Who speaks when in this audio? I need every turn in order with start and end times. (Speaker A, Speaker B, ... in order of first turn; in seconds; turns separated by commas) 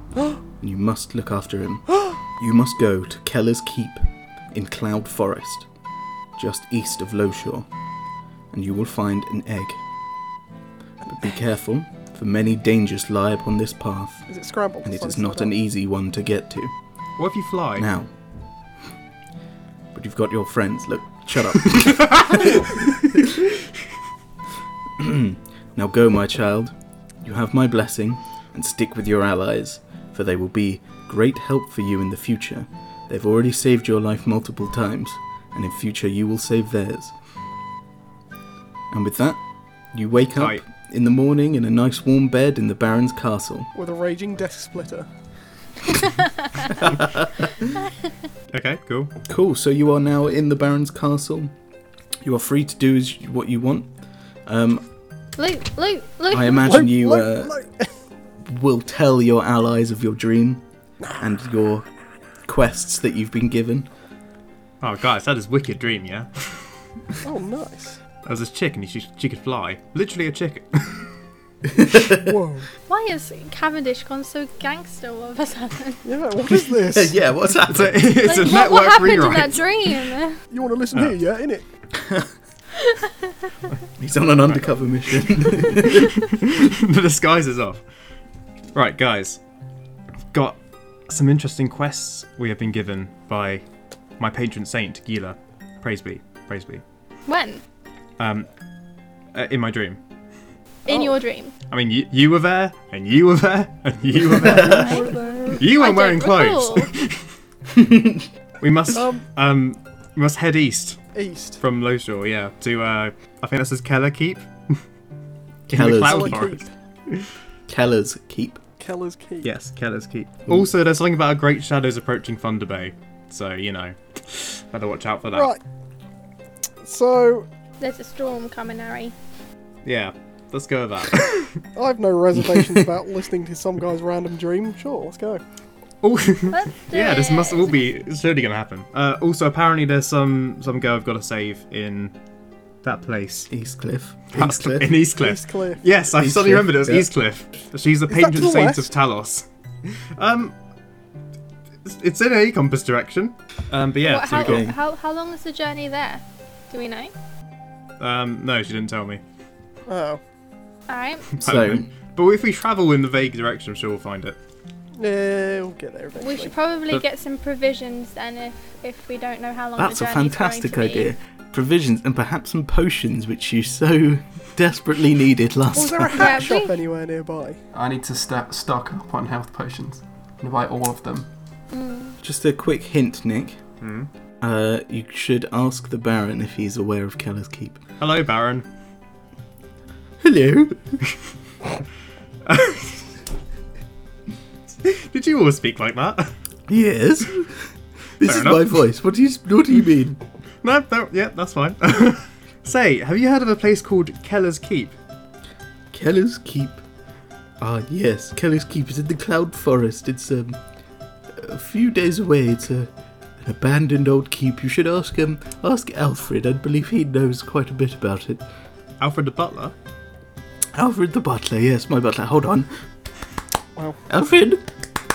Speaker A: 0.6-5.7, Speaker A: 6.3-7.7, Speaker A: 8.5-9.8, Speaker A: 11.1-14.3, Speaker B: 14.3-15.5, Speaker A: 14.8-16.7, Speaker C: 17.2-17.9, Speaker A: 17.8-18.1, Speaker A: 19.9-23.2, Speaker A: 25.0-37.1, Speaker A: 38.9-39.4, Speaker A: 39.9-43.7, Speaker C: 40.3-40.6, Speaker B: 43.7-45.1, Speaker A: 46.8-47.5, Speaker C: 48.5-49.1, Speaker A: 49.3-51.5, Speaker A: 52.2-53.9, Speaker A: 54.5-54.9, Speaker D: 55.4-56.8, Speaker A: 56.3-57.5, Speaker B: 56.6-57.9, Speaker A: 58.4-60.6, Speaker A: 61.1-61.9, Speaker A: 62.5-63.9, Speaker C: 64.8-66.5, Speaker B: 67.2-68.0, Speaker C: 68.2-71.0, Speaker A: 71.6-72.3, Speaker B: 72.2-72.7, Speaker D: 72.9-76.0, Speaker B: 76.0-77.1, Speaker A: 76.7-78.1, Speaker C: 77.7-79.6, Speaker D: 78.2-80.4, Speaker B: 80.5-81.7, Speaker A: 82.0-82.3, Speaker A: 84.0-86.2, Speaker C: 86.2-87.8, Speaker C: 88.7-89.4, Speaker C: 90.3-90.6, Speaker C: 91.1-93.6, Speaker C: 94.2-96.8, Speaker D: 97.3-97.6, Speaker C: 98.2-98.5, Speaker C: 99.3-100.0, Speaker D: 100.8-101.5, Speaker B: 100.9-101.1, Speaker C: 101.7-105.0, Speaker A: 104.4-104.9, Speaker D: 104.5-106.9, Speaker B: 104.6-105.7, Speaker C: 105.6-107.1, Speaker A: 107.7-108.2, Speaker C: 108.6-111.0, Speaker B: 108.9-109.2, Speaker B: 111.1-111.6, Speaker C: 111.6-114.8, Speaker C: 115.7-116.6, Speaker A: 115.7-116.4, Speaker B: 116.0-116.7, Speaker A: 117.7-118.6, Speaker B: 118.8-119.5, Speaker C: 119.4-125.5, Speaker B: 125.3-125.6, Speaker B: 126.8-127.5, Speaker D: 127.8-129.1, Speaker C: 129.8-131.5, Speaker B: 131.7-135.4, Speaker C: 136.0-142.1, Speaker D: 136.5-137.9, Speaker C: 142.8-143.5, Speaker A: 143.5-144.9, Speaker C: 144.3-149.4, Speaker B: 145.1-145.8, Speaker A: 146.1-147.1, Speaker B: 148.1-148.9, Speaker C: 150.2-150.5, Speaker C: 151.8-154.6, Speaker D: 154.0-157.1, Speaker A: 154.3-154.7, Speaker C: 158.0-159.2, Speaker B: 159.9-160.2, Speaker D: 160.9-161.4, Speaker A: 161.4-161.9, Speaker C: 161.4-164.4, Speaker B: 165.0-166.5, Speaker D: 166.2-171.1, Speaker A: 169.8-176.5, Speaker B: 175.7-177.6, Speaker D: 176.1-176.7, Speaker E: 177.7-181.3, Speaker D: 181.7-182.2, Speaker A: 182.2-183.6, Speaker C: 183.8-184.1, Speaker A: 184.4-187.8, Speaker C: 188.0-188.6, Speaker A: 190.2-191.0, Speaker C: 192.4-193.0, Speaker C: 194.8-196.3, Speaker A: 196.7-197.7, Speaker A: 198.2-200.2, Speaker C: 198.2-198.8, Speaker C: 200.6-204.9, Speaker A: 205.9-206.8, Speaker A: 207.6-210.6, Speaker A: 211.3-218.4, Speaker C: 219.0-219.7, Speaker A: 220.7-222.7, Speaker B: 223.8-224.0, Speaker A: 224.1-224.6